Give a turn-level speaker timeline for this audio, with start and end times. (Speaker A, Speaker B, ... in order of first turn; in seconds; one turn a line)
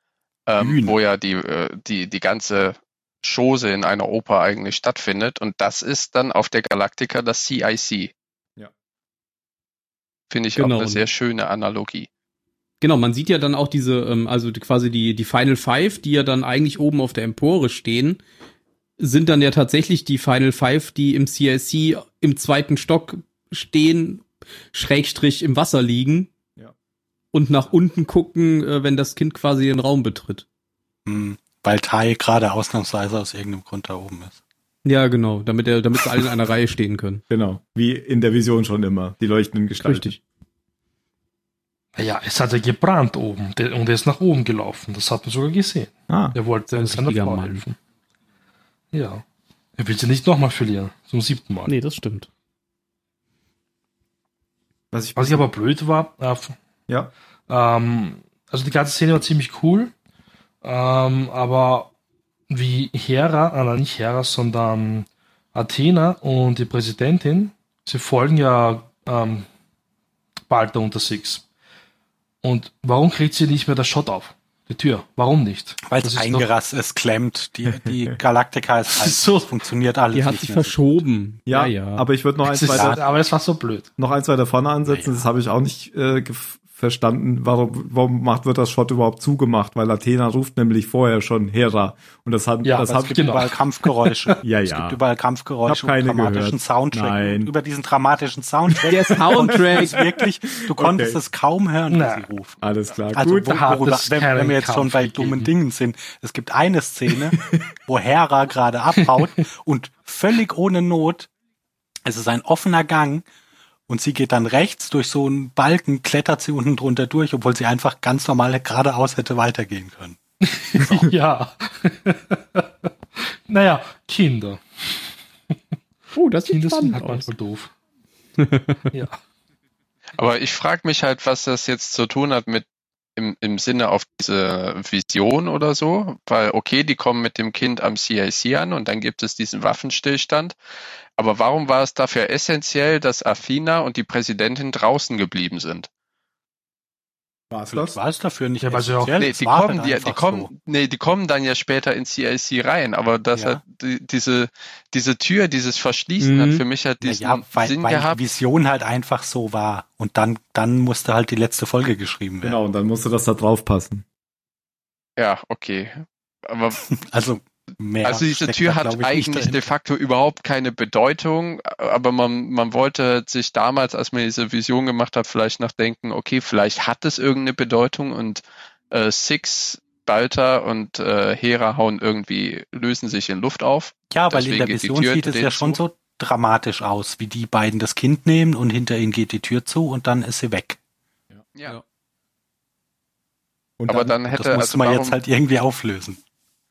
Speaker A: 0.5-8.1
Speaker B: 0.6-0.9
Speaker A: 10.3-12.1
Speaker C: 10.6-11.0
Speaker C: 12.8-18.2
Speaker C: 19.0-26.3
Speaker C: 27.3-30.4
Speaker B: 31.1-34.4
Speaker C: 34.8-37.2
Speaker D: 37.3-40.1
Speaker C: 39.8-40.2
Speaker E: 42.0-47.8
Speaker D: 46.1-46.4
Speaker C: 46.7-47.6
Speaker E: 48.9-49.2
Speaker E: 49.8-51.7
Speaker C: 51.6-52.3
Speaker D: 54.9-55.5
Speaker E: 55.1-56.5
Speaker D: 56.9-57.1
Speaker E: 57.5-59.9
Speaker E: 60.6-61.9
Speaker E: 62.5-69.5
Speaker E: 70.5-71.4
Speaker E: 72.4-76.5
Speaker B: 75.8-81.0
Speaker E: 78.9-79.5
Speaker C: 80.1-82.0
Speaker D: 81.5-83.0
Speaker E: 82.5-83.9
Speaker B: 82.7-83.1
Speaker D: 84.0-93.2
Speaker B: 84.8-85.2
Speaker E: 92.6-94.4
Speaker B: 92.9-102.6
Speaker D: 94.4-95.0
Speaker D: 95.6-97.5
Speaker C: 98.9-100.0
Speaker D: 99.3-101.2
Speaker E: 101.9-102.3
Speaker D: 102.6-103.6
Speaker B: 103.1-111.3
Speaker E: 103.5-105.5
Speaker B: 112.0-113.2
Speaker B: 113.9-120.2
Speaker E: 120.4-122.6
Speaker E: 123.5-125.1
Speaker C: 126.1-127.3
Speaker E: 126.5-127.7
Speaker C: 128.4-128.9
Speaker E: 128.9-129.2
Speaker A: 130.2-132.6
Speaker A: 133.2-140.5
Speaker A: 141.2-145.9
Speaker D: 147.5-148.0
Speaker B: 147.7-150.5
Speaker E: 148.6-149.2
Speaker A: 149.2-158.2
Speaker B: 153.3-153.6
Speaker C: 156.2-156.6
Speaker B: 157.0-162.6
Speaker D: 162.4-164.0
Speaker A: 165.2-166.8
Speaker B: 166.8-169.7
Speaker A: 168.0-185.8
Speaker B: 184.1-190.8
Speaker D: 193.8-194.2
Speaker A: 193.9-195.2
Speaker B: 194.3-196.2